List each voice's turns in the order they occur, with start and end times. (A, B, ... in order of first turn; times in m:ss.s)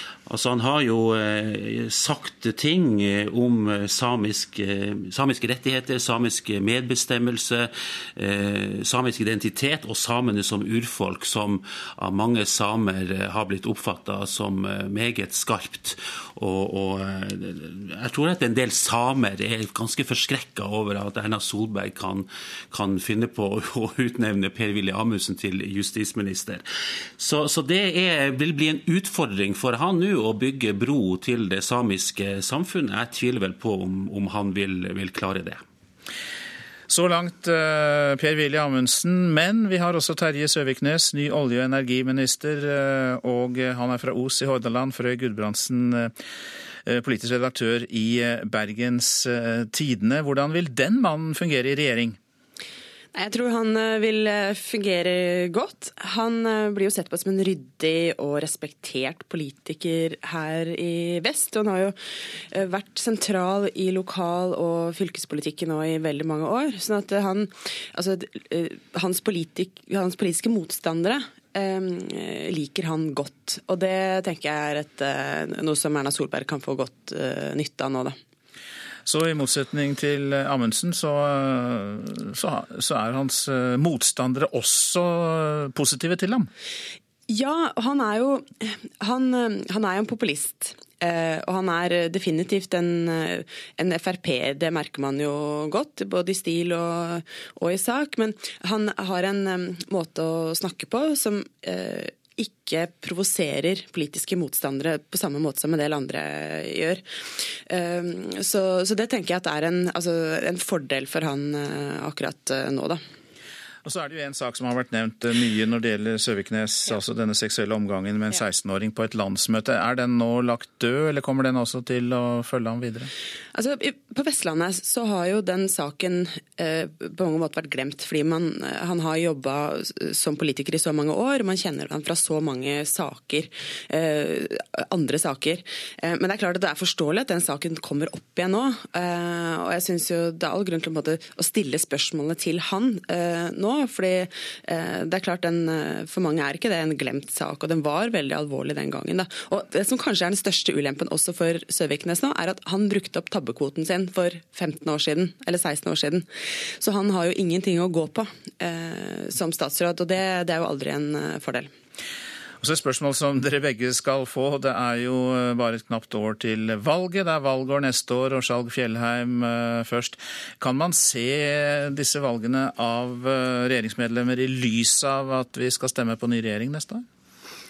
0:00.3-0:26.6 A
0:27.2-0:35.6 A
0:36.9-0:46.1 B
0:46.8-0:52.2 B
0:53.1-1:02.0 C
1:02.5-1:18.2 C
1:19.0-1:26.5 B
1:27.3-1:47.0 C
1:47.7-1:53.0 C
1:53.8-2:03.1 B
2:03.5-2:36.2 C
2:36.8-2:41.7 C
2:42.6-2:57.0 B